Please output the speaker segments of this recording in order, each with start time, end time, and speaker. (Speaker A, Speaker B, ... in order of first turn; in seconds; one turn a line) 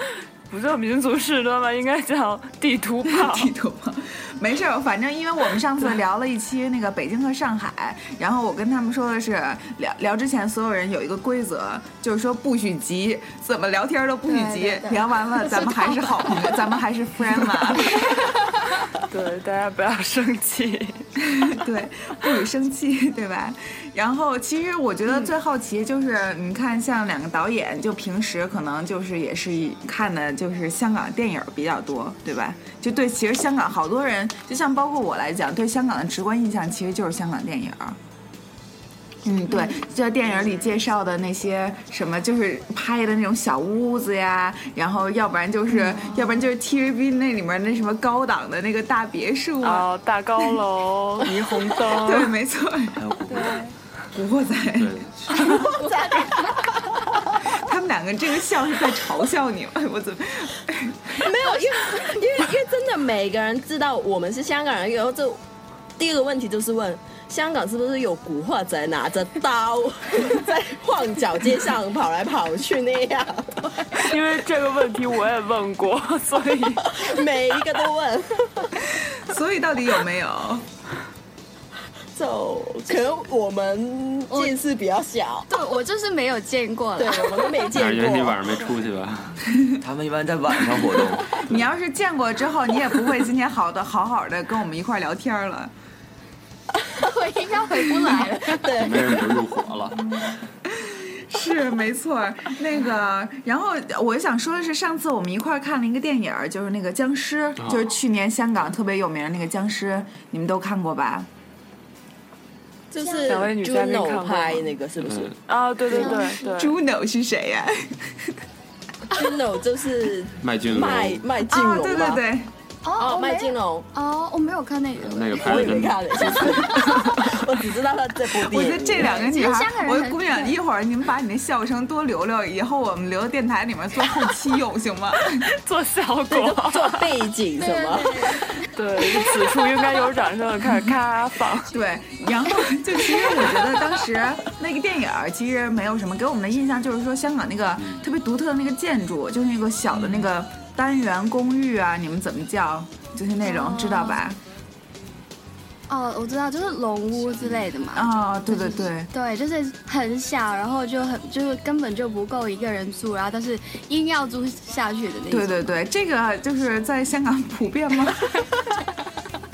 Speaker A: 0.5-3.5
Speaker B: 3.1-18.2
Speaker C: 14.3-16.5
Speaker C: 17.9-18.2
Speaker A: 19.1-21.0
Speaker B: 21.2-38.0
Speaker B: 39.2-49.9
Speaker C: 45.9-46.2
Speaker A: 49.6-52.3
Speaker B: 51.9-53.0
Speaker D: 53.0-53.6
Speaker C: 53.3-53.7
Speaker B: 54.1-55.0
Speaker E: 54.8-55.6
Speaker F: 55.4-56.8
Speaker C: 55.5-56.6
Speaker B: 57.5-61.2
Speaker F: 61.1-65.4
Speaker F: 66.0-74.0
Speaker A: 73.9-77.0
Speaker F: 76.9-78.9
Speaker B: 78.9-80.7
Speaker F: 82.1-85.5
Speaker C: 84.3-84.5
Speaker C: 85.5-87.7
Speaker F: 87.0-88.5
Speaker E: 87.7-89.4
Speaker D: 89.8-91.4
Speaker B: 91.4-95.7
Speaker C: 96.9-98.9
Speaker F: 98.5-99.4
Speaker E: 98.8-100.0
Speaker B: 100.6-111.3
Speaker E: 107.6-107.9
Speaker F: 112.9-115.3
Speaker C: 113.0-113.4
Speaker A: 113.2-114.7
Speaker E: 115.0-115.3
Speaker A: 115.5-116.8
Speaker F: 115.9-116.2
Speaker C: 115.9-116.5
Speaker B: 116.5-118.4
Speaker F: 119.1-122.2
Speaker E: 120.4-121.2
Speaker B: 121.5-122.5
Speaker C: 122.8-125.8
Speaker F: 123.0-123.9
Speaker E: 125.0-126.9
Speaker F: 125.4-129.1
Speaker C: 126.3-127.1
Speaker B: 128.3-135.5
Speaker C: 129.0-130.6
Speaker A: 135.6-137.1
Speaker F: 136.3-138.4
Speaker C: 137.6-138.6
Speaker A: 138.7-141.7
Speaker B: 141.7-154.4
Speaker E: 149.9-150.3
Speaker C: 153.4-154.2
Speaker C: 155.9-165.6
Speaker B: 157.9-159.1
Speaker B: 165.3-168.4